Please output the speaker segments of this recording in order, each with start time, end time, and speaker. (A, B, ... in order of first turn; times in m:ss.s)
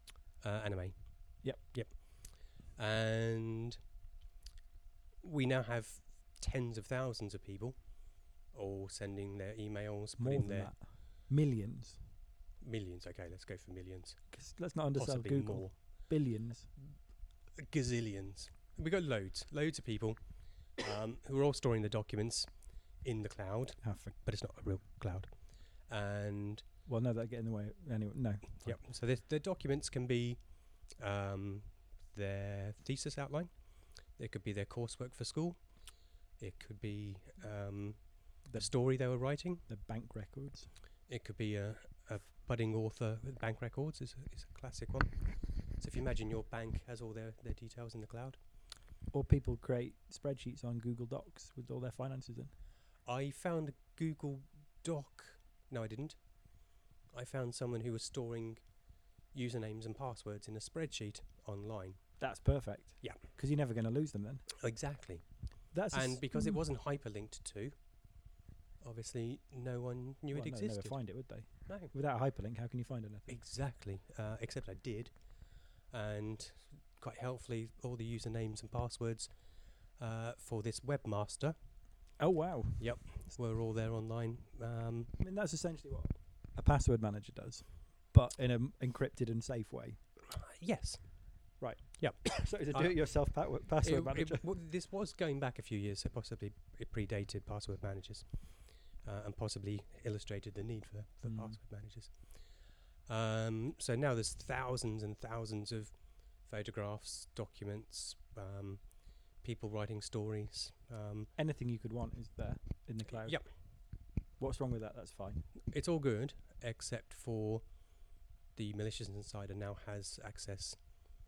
0:00.4-0:03.8 A
0:05.2-0:10.7 A
0:10.2-0:12.0 B
0:12.6-0:14.3 A
0:14.3-0:16.7 B
0:14.9-0:15.7 A
0:17.6-0:20.2 A
0:20.8-0:22.5 A
0:23.0-0:26.6 A
0:23.8-0:24.1 B
0:26.8-0:28.8 B
0:28.6-0:35.7 A
0:36.4-0:39.6 A
0:38.4-0:38.7 B
0:39.6-0:40.7 B
0:41.1-0:48.4 A
0:49.1-0:52.5 B
0:53.0-0:56.2 A
0:57.1-0:58.6 A
0:59.3-1:02.0 A
1:02.2-1:04.5 B
1:04.6-1:05.3 A
1:05.7-1:06.6 B
1:05.9-1:07.8 A
1:08.8-1:11.0 A
1:10.3-1:13.4 B
1:11.7-1:11.9 A
1:13.3-1:15.1 A
1:15.9-1:19.3 A
1:20.0-1:21.6 A
1:22.2-1:23.0 B
1:22.8-1:25.1 A
1:25.2-1:30.0 B
1:30.3-1:31.2 A
1:31.6-1:34.4 B
1:32.0-1:33.0 A
1:33.8-1:51.3 A
1:41.2-1:41.6 B
1:51.4-1:53.4 B
1:53.1-1:53.4 A
1:54.4-1:55.4 B
1:55.6-1:57.8 A
1:58.5-2:00.9 A